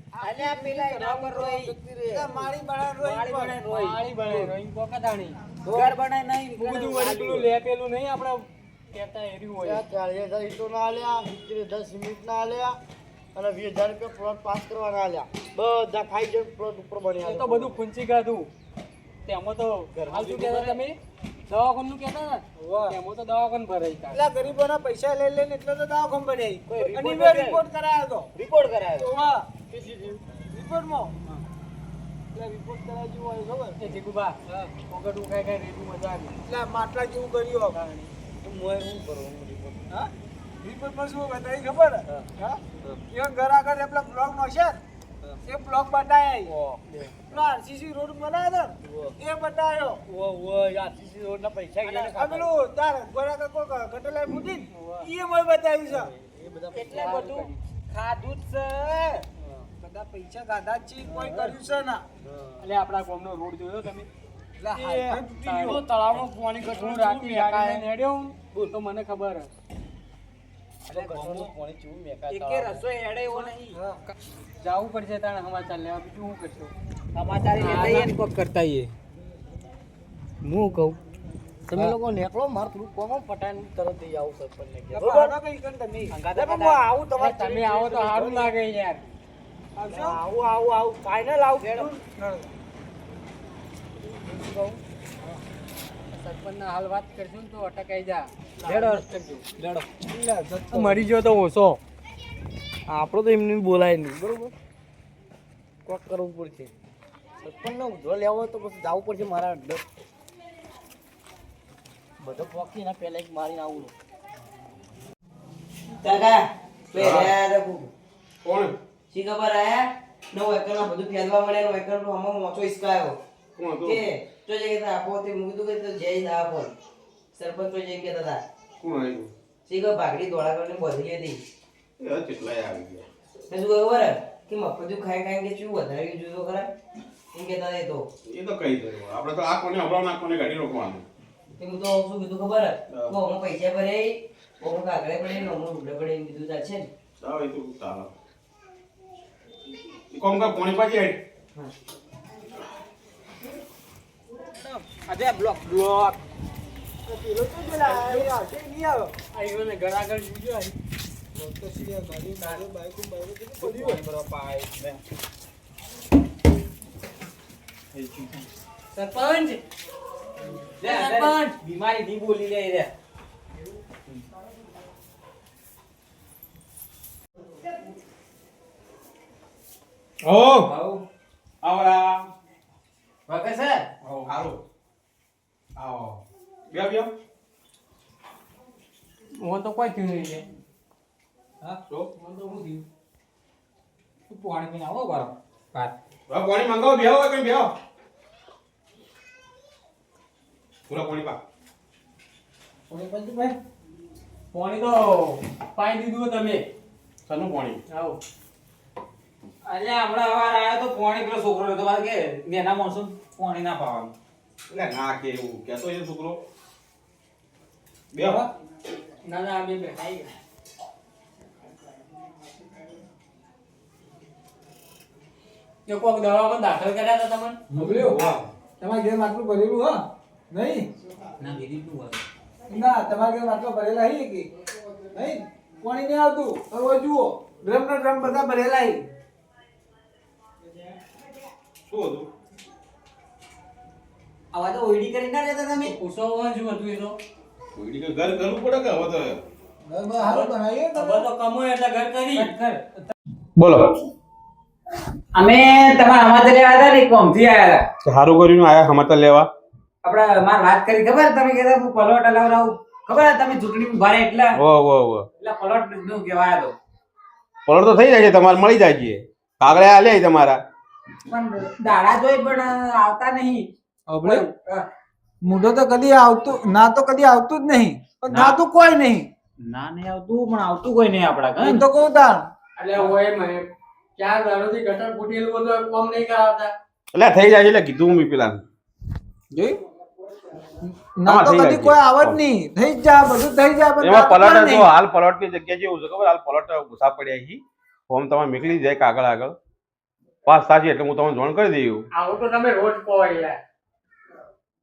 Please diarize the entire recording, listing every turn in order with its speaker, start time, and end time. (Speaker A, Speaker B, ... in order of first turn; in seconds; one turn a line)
Speaker A: 0.1-1.5
Speaker B: 0.2-4.5
Speaker C: 1.5-1.8
Speaker A: 2.1-3.5
Speaker D: 3.3-5.4
Speaker C: 5.6-5.9
Speaker B: 5.7-7.5
Speaker D: 6.5-9.8
Speaker C: 9.6-12.8
Speaker C: 13.3-17.8
Speaker D: 17.2-18.5
Speaker D: 19.2-21.0
Speaker B: 19.9-20.8
Speaker D: 21.5-24.2
Speaker A: 22.6-23.0
Speaker A: 24.1-28.3
Speaker B: 26.7-27.6
Speaker B: 28.3-29.1
Speaker A: 28.9-29.5
Speaker C: 29.7-30.4
Speaker A: 30.4-31.1
Speaker A: 32.3-34.0
Speaker D: 33.8-36.4
Speaker A: 36.5-37.8
Speaker D: 37.7-38.1
Speaker C: 38.4-39.9
Speaker A: 39.9-44.8
Speaker A: 45.4-46.5
Speaker C: 46.5-46.8
Speaker A: 47.3-50.0
Speaker C: 48.8-49.1
Speaker C: 50.1-52.5
Speaker A: 51.9-56.1
Speaker D: 54.7-55.1
Speaker C: 55.9-57.2
Speaker B: 56.7-59.2
Speaker D: 56.9-57.6
Speaker C: 59.4-59.7
Speaker A: 59.8-62.0
Speaker C: 61.0-61.4
Speaker C: 62.2-62.6
Speaker D: 62.6-64.1
Speaker A: 64.6-65.8
Speaker C: 64.7-65.3
Speaker D: 65.4-69.5
Speaker A: 66.6-67.8
Speaker B: 70.9-71.5
Speaker C: 70.9-72.8
Speaker B: 72.3-73.8
Speaker D: 74.6-76.7
Speaker B: 77.1-78.9
Speaker D: 77.5-78.1
Speaker C: 80.4-81.0
Speaker C: 81.7-85.3
Speaker A: 84.9-86.2
Speaker B: 86.1-86.8
Speaker C: 86.3-88.4
Speaker D: 87.2-89.1
Speaker A: 89.8-90.2
Speaker C: 89.9-92.0
Speaker C: 94.1-94.8
Speaker D: 96.1-99.4
Speaker B: 98.6-99.0
Speaker B: 99.6-99.9
Speaker A: 100.0-101.0
Speaker D: 100.7-101.8
Speaker C: 102.9-104.5
Speaker C: 105.8-106.7
Speaker C: 107.4-109.8
Speaker C: 112.2-113.9
Speaker E: 116.0-117.9
Speaker F: 116.9-117.3
Speaker F: 118.4-118.7
Speaker E: 119.1-123.2
Speaker F: 123.6-124.0
Speaker E: 123.8-126.7
Speaker E: 127.3-128.4
Speaker F: 128.8-129.3
Speaker E: 129.7-131.4
Speaker F: 132.0-133.0
Speaker E: 133.5-136.7
Speaker E: 137.3-138.1
Speaker F: 138.2-141.1
Speaker E: 141.6-146.9
Speaker F: 142.9-143.1
Speaker F: 147.2-148.1
Speaker F: 150.1-151.2
Speaker B: 154.6-156.2
Speaker A: 157.1-159.1
Speaker C: 157.8-158.3
Speaker D: 159.3-160.7
Speaker A: 161.3-164.0
Speaker D: 162.3-162.6
Speaker B: 163.6-165.0
Speaker B: 167.9-168.4
Speaker D: 168.9-169.6
Speaker B: 170.8-172.9
Speaker D: 170.8-171.6
Speaker F: 180.2-180.7
Speaker B: 180.6-181.0
Speaker F: 181.6-182.3
Speaker B: 183.3-184.3
Speaker F: 184.2-184.6
Speaker F: 185.8-187.1
Speaker D: 189.4-190.4
Speaker D: 192.2-192.8
Speaker B: 194.3-195.9
Speaker F: 196.3-197.7
Speaker F: 200.9-201.4
Speaker A: 202.9-203.6
Speaker D: 204.5-206.6
Speaker F: 207.3-207.8
Speaker D: 207.9-208.2
Speaker B: 209.7-214.1
Speaker F: 214.7-216.4
Speaker F: 218.1-218.4
Speaker D: 219.2-220.3
Speaker D: 225.9-227.6
Speaker A: 227.7-230.9
Speaker F: 227.9-228.4
Speaker B: 231.4-232.2
Speaker A: 232.7-234.5
Speaker A: 235.1-239.0
Speaker F: 241.9-242.3
Speaker B: 244.5-245.9
Speaker D: 245.8-247.2
Speaker F: 247.8-249.4
Speaker A: 249.8-251.2
Speaker D: 250.1-252.5
Speaker B: 252.3-252.9
Speaker F: 253.6-254.0
Speaker B: 255.3-257.9
Speaker F: 258.0-259.5
Speaker B: 260.0-264.6
Speaker F: 264.5-265.3
Speaker B: 265.4-266.7
Speaker F: 267.7-270.6
Speaker B: 271.3-273.7
Speaker A: 274.1-274.5
Speaker B: 274.2-274.8
Speaker A: 275.4-279.3
Speaker B: 278.3-278.6
Speaker B: 279.6-281.8
Speaker A: 281.6-282.5
Speaker D: 282.8-286.7
Speaker F: 287.1-288.6
Speaker A: 290.8-294.9
Speaker F: 291.2-292.4
Speaker F: 294.0-299.6
Speaker F: 300.4-302.1
Speaker D: 302.1-303.6